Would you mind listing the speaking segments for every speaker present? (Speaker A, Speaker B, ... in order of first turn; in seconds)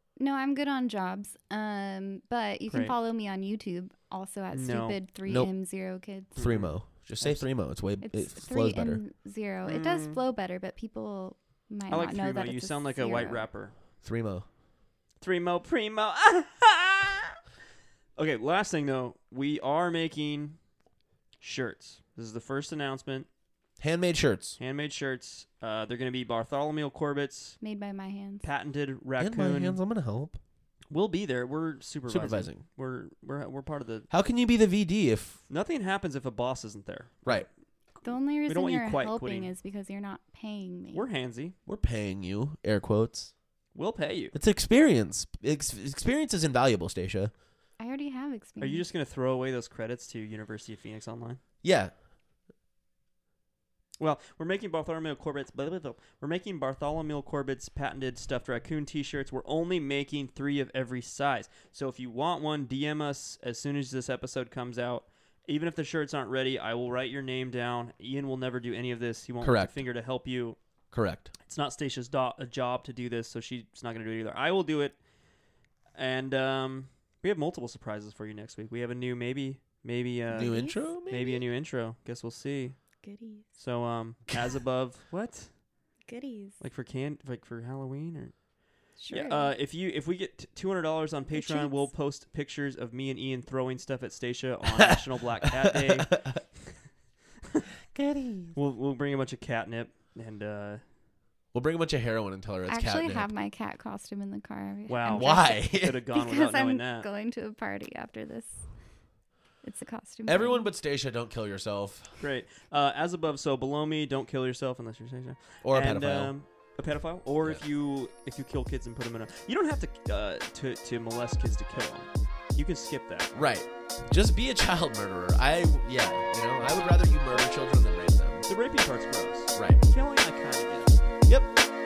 Speaker A: 0.2-6.3, 8.0-13.4, 27.6-28.4, 38.0-41.1, 47.8-48.9, 80.3-80.8, 83.0-83.5, 86.0-86.6, 89.0-89.5, 91.3-91.9, 102.7-108.7, 109.6-110.7
Speaker B: 2.7-3.0, 4.5-5.0, 6.3-7.5, 9.6-10.2, 11.9-13.7, 15.2-17.4, 18.2-20.6, 21.4-23.3, 24.6-27.6, 28.4-29.8, 30.9-34.1, 35.5-37.5, 38.5-39.5, 40.9-41.5, 43.7-44.3, 48.6-51.4, 54.0-70.6, 71.4-75.0, 76.0-82.8, 83.6-85.5, 86.6-88.3, 89.1-96.4, 98.5-100.8, 104.9-107.1, 112.2-123.3, 128.5-131.0
Speaker C: 5.2-5.5, 6.3-9.0, 14.0-14.4, 23.8-24.6, 29.2-30.4, 32.1-32.6, 34.1-35.4, 41.7-43.3, 44.3-47.3, 51.6-51.9, 69.4-69.8, 70.9-71.3, 80.3-81.4, 95.5-96.4, 97.9-98.5, 101.5-103.3, 105.1-106.0, 110.3-112.1, 115.6-116.3, 123.3-128.4, 129.5-129.8